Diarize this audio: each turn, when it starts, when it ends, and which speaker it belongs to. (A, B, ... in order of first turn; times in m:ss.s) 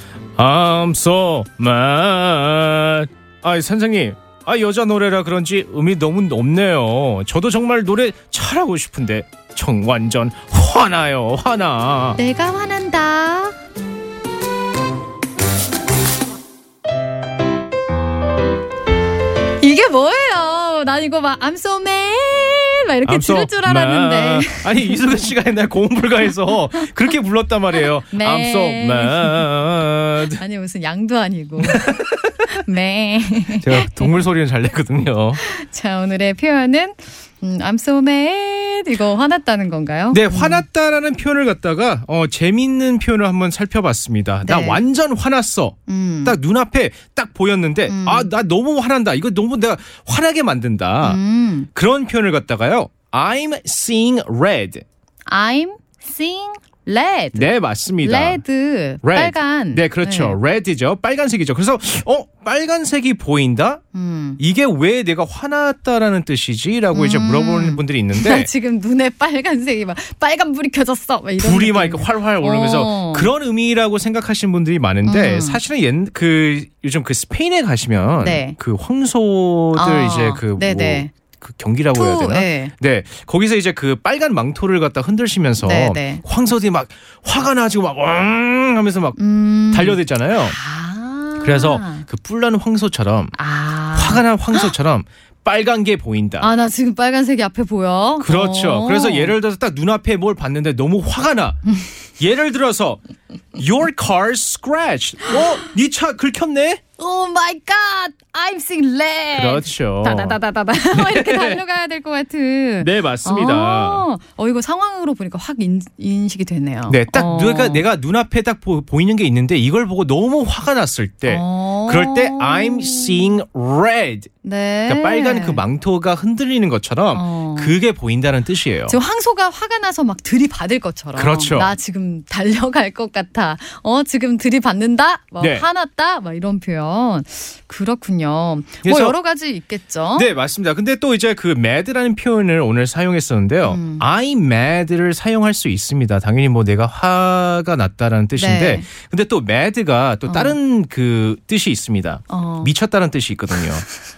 0:00.4-0:12.2 A
0:12.2-0:13.6 B
0:19.6-0:25.3 B
0:23.0-0:30.4 A
0:28.1-0:29.5 B
0:30.3-0:34.1 B
0:31.6-0:32.3 A
0:33.6-0:35.4 A
0:35.4-0:40.6 B
0:40.1-0:51.2 A
0:44.4-0:44.8 B
0:45.9-0:46.4 B
0:47.9-0:48.3 B
0:51.0-0:51.7 B
0:51.8-0:54.8 A
0:55.3-0:57.5 B
0:57.4-0:58.4 A
0:58.0-1:00.4 B
0:59.0-1:03.8 A
1:03.9-1:04.4 B
1:04.4-1:08.5 A
1:06.9-1:13.3 B
1:11.4-1:29.2 A
1:15.0-1:15.6 B
1:18.2-1:18.6 B
1:19.8-1:21.1 B
1:21.9-1:22.7 B
1:25.6-1:26.2 B
1:29.2-1:32.1 B
1:29.7-1:30.6 A
1:31.4-1:33.4 A
1:33.4-1:34.7 B
1:34.0-1:36.5 A
1:36.4-1:39.4 B
1:38.2-1:41.6 A
1:42.2-1:43.0 A
1:43.6-1:46.8 A
1:47.0-1:57.9 B
1:49.3-1:50.4 A
1:50.9-1:51.6 A
1:52.8-1:54.0 A
1:56.9-2:04.3 A
2:01.3-2:03.4 B
2:04.4-2:05.6 B
2:04.9-2:09.0 A
2:07.1-2:07.8 B
2:08.9-2:20.3 B
2:11.2-2:11.7 A
2:18.8-2:19.2 A
2:20.2-2:33.9 A
2:23.6-2:24.1 B
2:28.4-2:28.9 B
2:30.2-2:30.6 B
2:32.3-2:32.7 B